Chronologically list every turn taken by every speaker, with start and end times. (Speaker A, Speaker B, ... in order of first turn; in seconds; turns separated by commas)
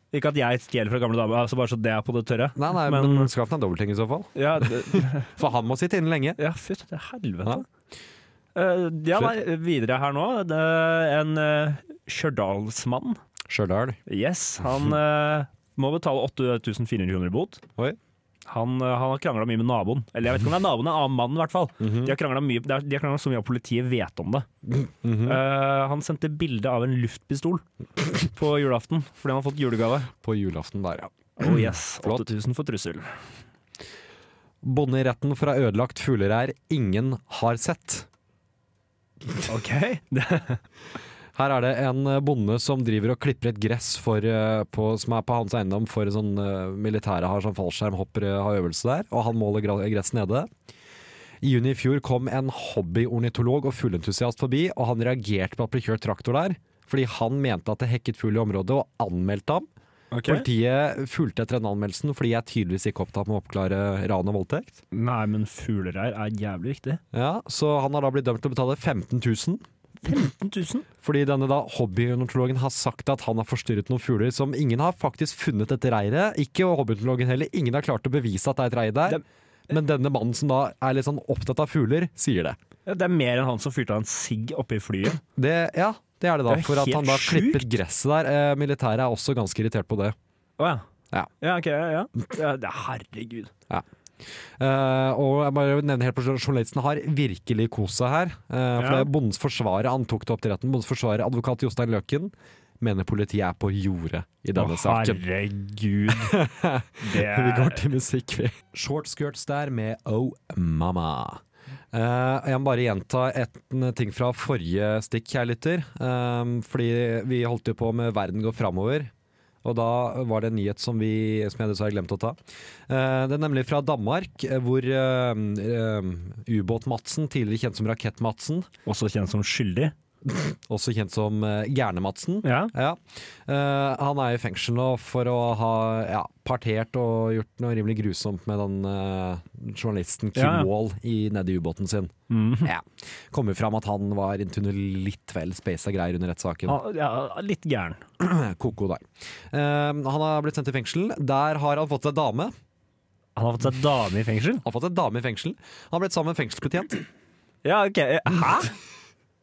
Speaker A: 0.1-3.3, Speaker B: 2.5-6.4, Speaker A: 4.3-5.3, Speaker A: 6.4-7.6, Speaker A: 8.6-13.2, Speaker B: 13.5-14.0, Speaker A: 14.1-17.6, Speaker A: 18.4-24.5, Speaker B: 21.8-22.2, Speaker B: 24.7-25.4, Speaker A: 25.2-27.6, Speaker A: 28.2-30.1, Speaker B: 30.2-32.3, Speaker A: 31.4-33.1, Speaker B: 34.6-38.1, Speaker A: 39.5-40.6, Speaker B: 41.3-50.5, Speaker B: 51.4-59.7, Speaker A: 60.1-60.5, Speaker B: 60.2-64.8, Speaker A: 64.9-67.0, Speaker B: 67.1-69.6, Speaker A: 70.0-70.9, Speaker B: 71.0-82.6, Speaker A: 82.9-85.2, Speaker B: 85.4-90.2, Speaker A: 86.5-87.7, Speaker A: 90.6-90.8, Speaker A: 91.4-93.5, Speaker B: 94.6-105.2, Speaker A: 98.8-99.1, Speaker A: 104.5-106.4, Speaker B: 106.1-119.1, Speaker A: 107.0-107.9, Speaker B: 119.6-128.7, Speaker A: 128.9-129.9, Speaker B: 130.3-146.8, Speaker A: 132.4-132.7, Speaker A: 140.3-140.7, Speaker A: 142.3-142.7, Speaker A: 146.7-148.0, Speaker B: 148.2-152.6, Speaker A: 153.4-154.6, Speaker B: 154.6-157.0, Speaker A: 157.6-158.7